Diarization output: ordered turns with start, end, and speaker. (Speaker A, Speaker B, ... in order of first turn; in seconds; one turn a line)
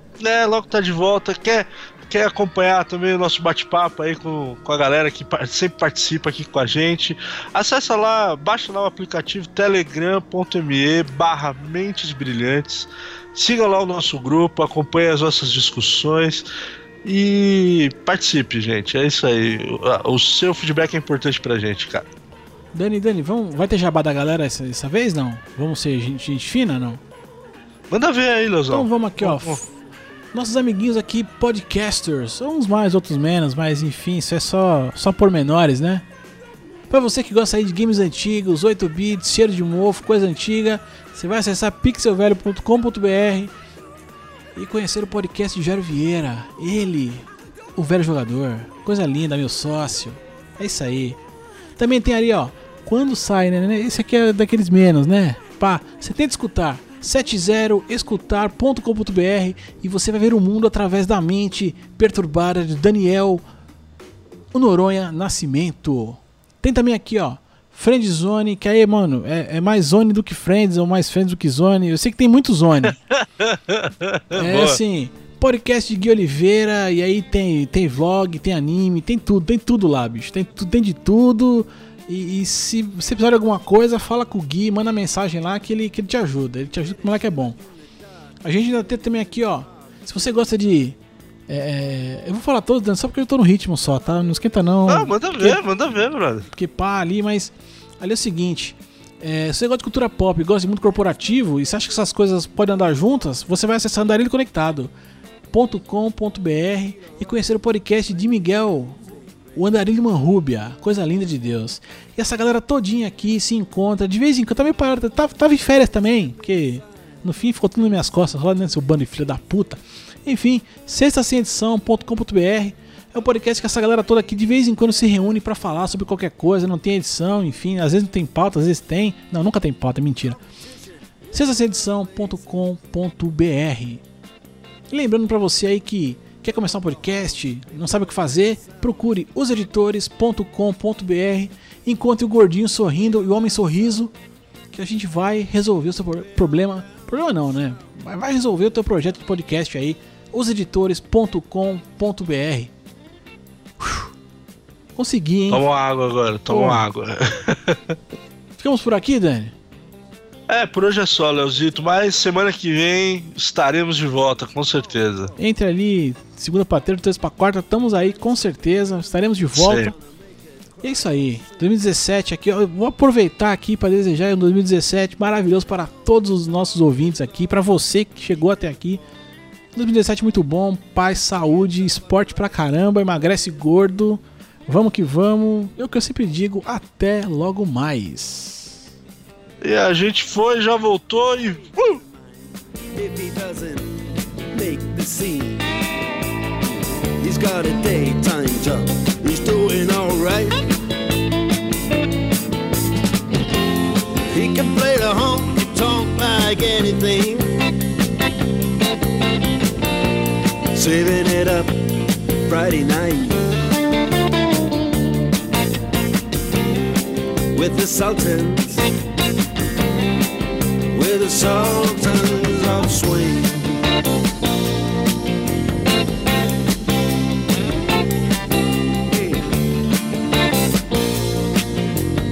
Speaker A: 0.2-16.5
Speaker A: 17.0-22.1
Speaker B: 22.7-27.0
Speaker A: 27.9-29.6
Speaker B: 28.7-29.7
Speaker B: 30.3-36.1
Speaker B: 36.9-43.5
Speaker B: 44.5-51.2
Speaker B: 51.8-63.4
Speaker B: 64.5-73.0
Speaker A: 73.1-74.8
Speaker B: 74.3-87.6
Speaker B: 88.4-91.0
Speaker B: 91.5-95.6
Speaker A: 94.9-96.5
Speaker B: 96.5-104.9
Speaker B: 105.5-109.0
Speaker B: 109.5-130.4
Speaker B: 131.3-134.0
Speaker B: 134.9-144.1
Speaker B: 144.7-152.7
Speaker B: 153.8-154.1
Speaker B: 155.0-155.6
Speaker A: 155.5-158.0
Speaker B: 156.5-156.8
Speaker B: 158.6-159.6
Speaker A: 160.5-165.3
Speaker B: 165.4-169.9
Speaker A: 169.5-169.9
Speaker B: 170.8-179.0
Speaker B: 179.8-188.8
Speaker A: 189.6-192.0
Speaker C: 192.9-193.9
Speaker C: 194.5-195.6
Speaker C: 197.2-200.6
Speaker C: 204.3-207.5
Speaker C: 210.7-211.9
Speaker C: 212.4-213.5
Speaker C: 217.5-218.9
Speaker C: 220.9-223.8
Speaker C: 229.1-229.5